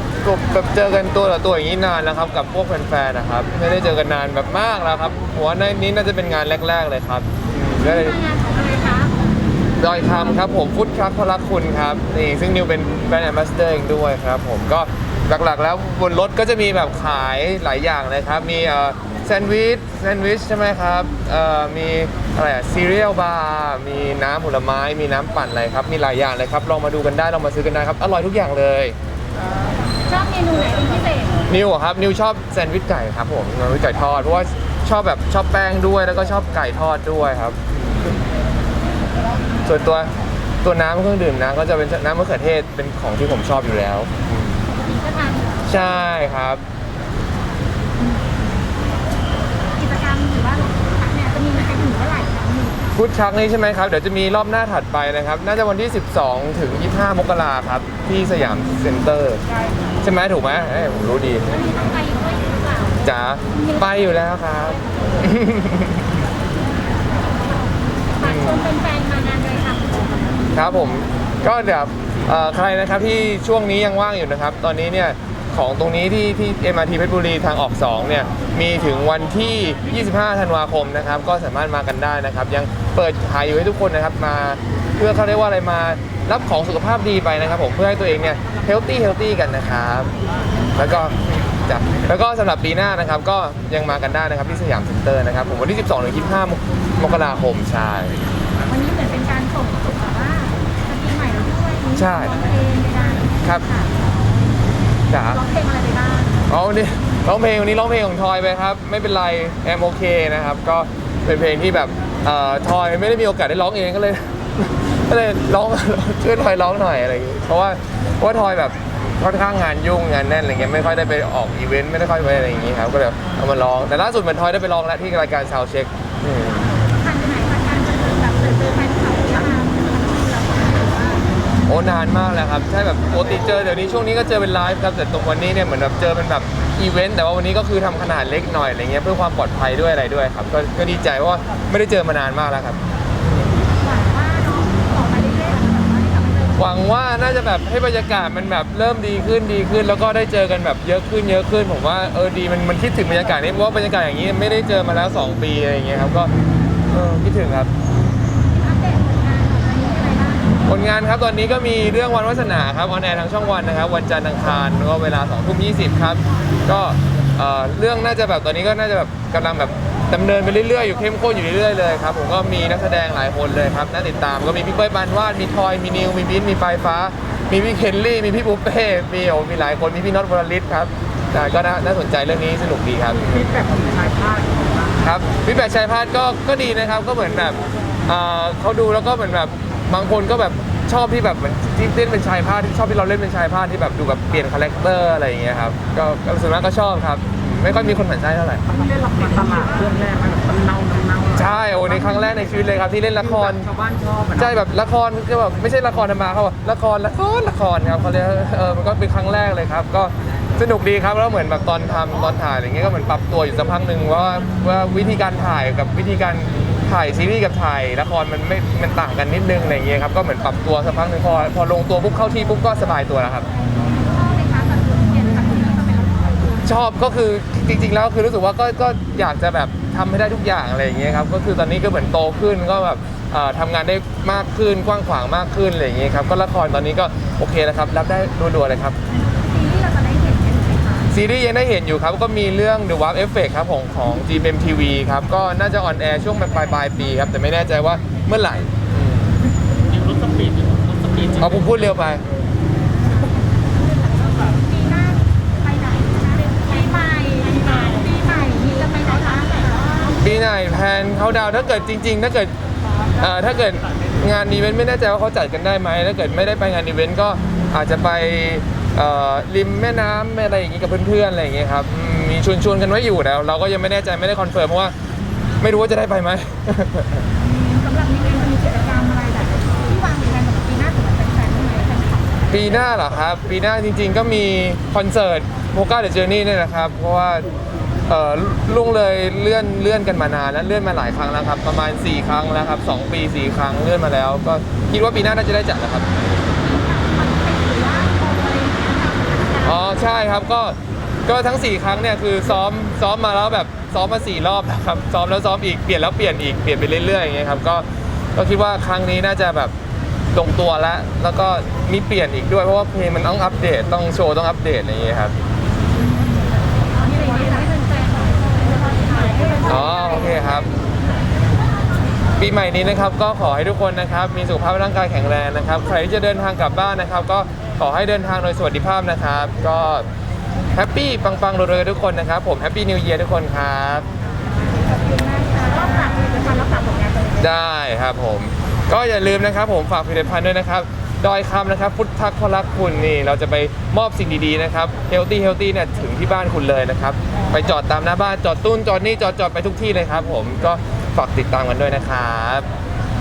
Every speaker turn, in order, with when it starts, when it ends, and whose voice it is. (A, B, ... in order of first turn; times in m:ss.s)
0:00.2-0:08.2 A
0:08.0-0:09.1 B
0:09.8-0:28.9 A
0:30.0-0:31.3 B
0:31.5-0:37.6 A
0:39.6-0:40.1 A
0:40.6-0:44.5 A
0:44.8-0:45.5 B
0:45.6-0:46.6 A
0:49.7-0:52.8 B
0:52.9-0:59.4 A
1:00.0-1:01.5 A
1:01.5-1:03.0 B
1:03.0-1:06.1 A
1:08.2-1:10.3 B
1:08.2-1:08.6 A
1:10.5-1:30.1 A
1:30.7-1:31.1 A
1:31.7-1:38.2 A
1:38.6-1:43.9 B
1:42.0-1:42.4 A
1:45.1-1:45.4 A
1:45.3-1:46.4 B
1:46.5-2:06.8 A
2:06.9-2:11.2 B
2:11.7-2:22.8 A
2:23.8-2:26.7 B
2:26.6-2:36.3 A
2:36.9-2:37.7 A
2:38.5-2:40.6 B
2:40.6-3:03.5 A
3:03.5-3:04.5 C
3:05.0-3:18.6 A
3:18.8-3:21.3 C
3:21.3-3:23.7 A
3:23.8-3:24.3 C
3:24.3-3:43.5 A
3:43.9-3:46.6 B
3:46.6-3:59.0 A
3:59.2-4:01.1 B
4:01.1-4:09.3 A
4:10.0-4:11.4 C
4:11.4-4:12.2 A
4:14.3-4:20.1 B
4:20.2-4:22.5 A
4:23.2-4:34.9 A
4:35.6-4:37.2 A
4:37.4-4:42.4 B
4:42.5-4:47.4 A
4:48.1-4:56.1 A
4:56.5-5:00.0 B
4:59.6-5:09.7 A
5:10.3-5:15.4 A
5:17.0-5:20.2 B
5:19.6-5:20.7 A
5:22.4-5:30.1 A
5:30.7-5:34.0 A
5:35.0-5:37.4 B
5:37.4-5:52.7 A